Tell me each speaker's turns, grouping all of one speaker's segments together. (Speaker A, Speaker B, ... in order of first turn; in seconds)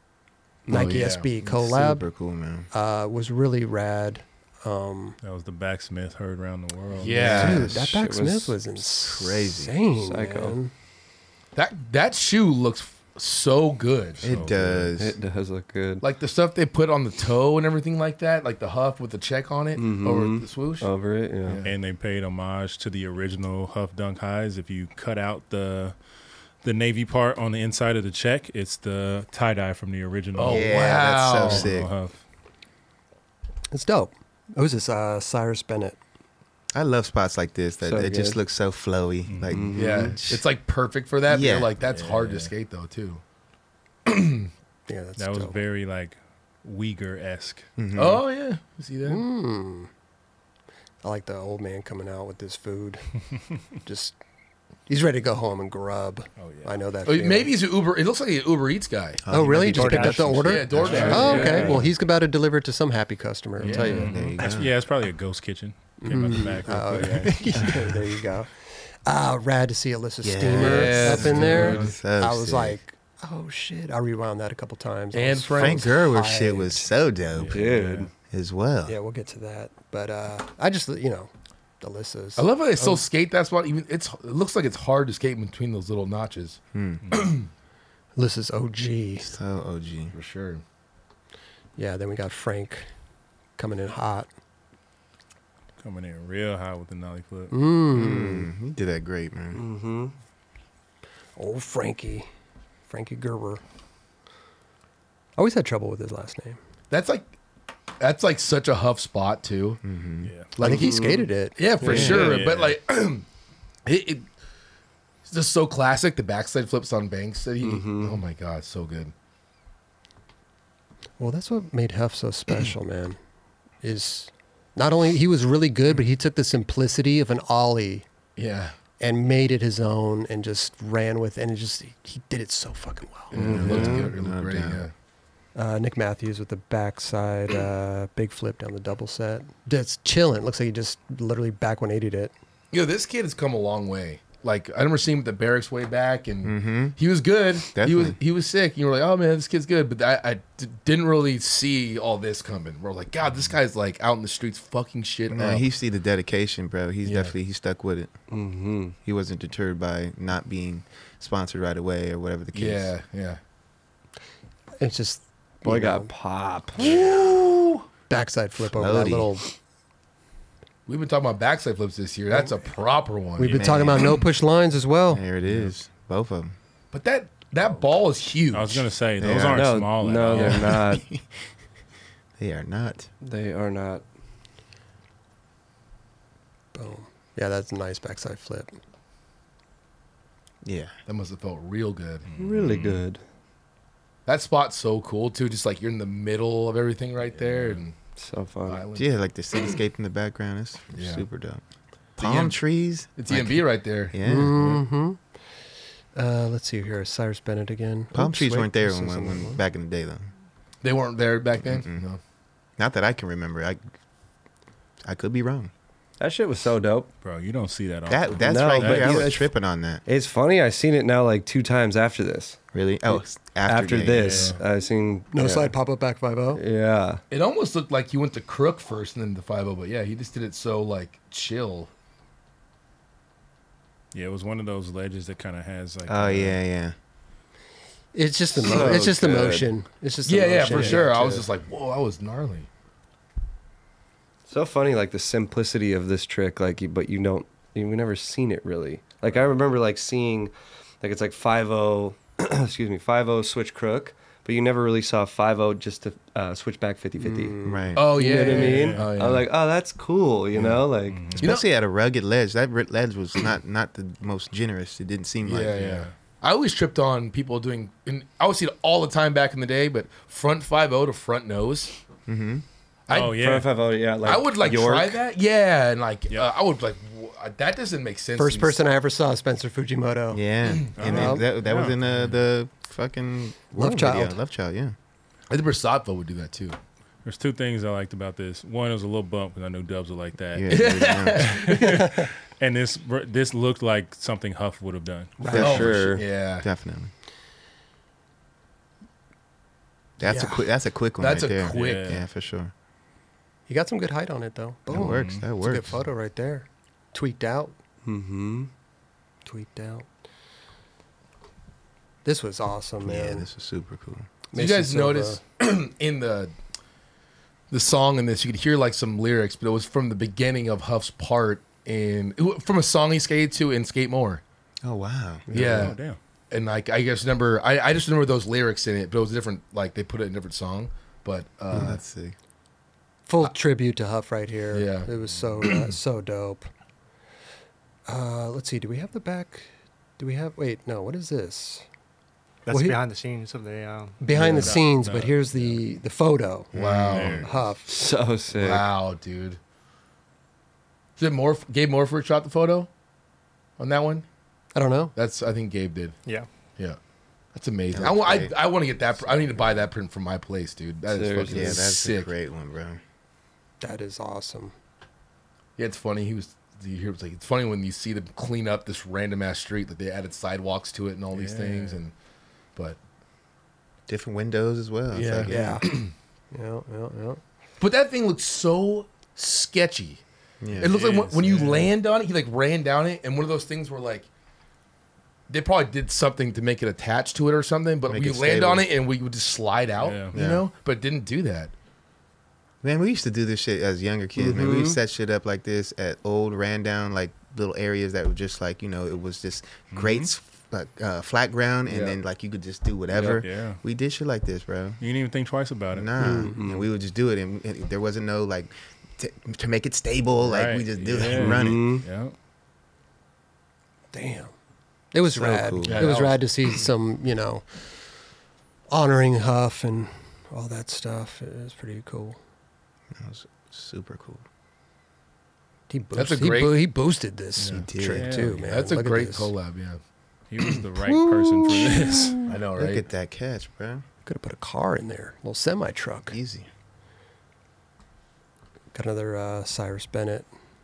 Speaker A: 0.7-2.0, 2.7-5.2, 7.2-10.7, 33.7-36.0, 44.9-45.6, 49.0-49.9, 51.0-53.0, 53.8-54.1, 54.9-57.5, 59.3-64.1, 66.0-76.8, 78.8-83.0, 88.2-89.3, 91.8-92.9, 93.6-94.3, 97.5-98.5, 101.4-102.3, 102.9-103.6, 105.4-106.6, 110.6-112.3, 121.2-123.2, 123.8-128.0, 129.0-133.4, 135.5-142.3, 164.8-166.1, 168.1-169.5, 173.4-175.2, 186.7-188.7, 204.2-205.2, 206.1-209.6, 225.3-226.6, 238.1-241.4, 257.2-258.4, 278.4-280.4, 281.0-281.4, 283.7-284.4, 295.4-295.8, 300.2-300.6, 303.7-307.7, 309.4-310.1, 312.2-313.5, 314.5-315.4, 325.5-325.8, 333.3-336.7, 338.1-339.7, 340.2-341.8, 342.7-343.0, 344.2-347.9, 354.7-355.1, 363.8-364.7, 375.1-376.0, 376.5-377.4, 406.2-406.6, 414.1-414.5, 415.1-417.7, 418.9-422.4, 425.9-429.5, 431.0-432.4, 434.2-436.3, 438.9-440.5
Speaker B: 0.7-1.2, 7.0-7.7, 11.5-14.2, 16.0-20.9, 21.4-21.7, 30.3-31.7, 39.7-43.2, 44.0-44.5, 48.0-49.2, 57.0-59.2, 59.8-61.9, 63.6-64.2, 70.5-71.9, 75.1-75.8, 82.4-86.6, 87.1-87.5, 90.1-90.6, 106.9-107.3, 108.0-109.8, 110.6-113.2, 113.8-114.2, 115.2-119.1, 128.3-128.7, 133.3-134.9, 142.7-155.7, 157.0-157.3, 162.5-163.4, 166.8-167.8, 170.9-173.7, 176.9-178.8, 180.3-180.7, 191.1-192.3, 194.2-197.9, 198.7-199.1, 200.9-201.2, 202.2-202.6, 203.2-204.2, 210.8-212.2, 227.3-231.9, 240.3-242.7, 257.9-259.5, 261.4-261.6, 265.4-271.9, 273.1-273.4, 274.2-278.8, 285.5-286.8, 290.7-292.0, 295.5-296.7, 301.2-302.2, 314.5-316.5, 317.7-324.4, 325.5-325.9, 326.5-332.0, 334.7-335.1, 335.6-335.9, 344.3-344.8, 346.8-347.4, 348.5-349.6, 351.2-352.9, 353.8-354.2, 355.1-356.1, 357.5-362.3, 365.8-372.1, 375.1-376.1, 377.8-380.2, 380.8-384.3, 385.5-391.7, 401.9-402.2, 415.8-416.7, 426.1-426.9, 427.6-427.8, 428.7-430.0, 432.4-433.0
Speaker C: 1.4-2.7, 7.2-8.0, 9.0-9.8, 14.2-15.2, 30.4-31.9, 36.7-40.4, 41.3-41.7, 47.8-48.2, 59.2-61.8, 63.9-64.7, 67.3-68.0, 70.2-72.8, 75.6-77.7, 78.3-78.9, 86.7-87.2, 89.2-90.1, 97.9-99.6, 109.8-110.3, 111.9-112.2, 133.3-134.8, 146.4-147.0, 147.7-148.2, 155.3-158.1, 159.0-162.9, 168.7-169.3, 173.5-174.1, 175.1-176.5, 179.2-179.7, 180.7-181.2, 182.4-183.1, 190.6-190.9, 198.9-201.6, 202.2-204.8, 208.1-210.3, 211.7-212.0, 212.8-213.8, 215.0-215.7, 218.1-220.0, 222.7-224.5, 236.1-236.9, 257.6-258.1, 261.4-265.9, 272.2-272.6, 280.3-284.9, 290.5-291.6, 295.5-297.1, 300.2-302.7, 304.9-306.0, 313.0-314.3, 324.8-325.9, 331.7-332.3, 346.7-347.4, 357.9-358.5, 361.5-363.0, 374.1-375.8, 380.6-380.9, 388.1-388.9, 390.3-390.6, 392.8-405.0, 405.9-412.0, 415.3-416.1, 423.1-424.4, 427.7-428.3, 432.8-434.0, 436.3-436.7
Speaker D: 5.2-7.6, 14.2-14.9, 21.6-25.9, 26.6-32.2, 39.3-39.7, 41.9-42.5, 45.2-47.7, 56.4-56.7, 60.8-61.8, 63.7-67.4, 71.2-71.9, 77.3-78.1, 87.1-87.3, 95.8-97.5, 110.2-110.5, 112.0-112.8, 173.4-173.8, 178.5-180.8, 192.2-193.0, 197.4-197.8, 217.2-219.3, 224.2-224.6, 234.1-236.6, 258.4-259.1, 261.1-261.5, 265.8-266.1, 273.1-273.7, 280.9-282.4, 287.2-295.4, 301.7-302.2, 304.9-305.4, 325.5-326.2, 344.3-345.8, 347.1-347.5, 371.3-372.0, 380.8-381.9, 390.0-390.4, 399.9-400.3, 403.1-403.8, 405.0-406.2, 410.4-412.3, 428.1-428.7, 430.5-432.4
Speaker E: 7.5-8.6, 10.0-10.6, 15.0-16.0, 19.8-21.6, 37.8-38.4, 39.5-40.2, 77.5-78.1, 99.5-100.1, 110.6-111.3, 111.8-112.4, 117.6-118.2, 133.3-134.1, 158.3-158.9, 165.6-167.0, 179.3-181.1, 183.2-184.0, 192.3-193.2, 198.2-198.8, 216.2-217.1, 218.4-219.5, 220.1-222.6, 223.1-225.7, 226.6-227.2, 238.6-239.7, 240.7-241.0, 244.5-261.3, 273.3-275.2, 295.5-296.2, 308.0-308.7, 347.9-348.9, 361.1-361.8, 394.4-395.0, 406.6-406.9, 411.3-412.1
Speaker F: 59.7-60.3, 342.6-344.2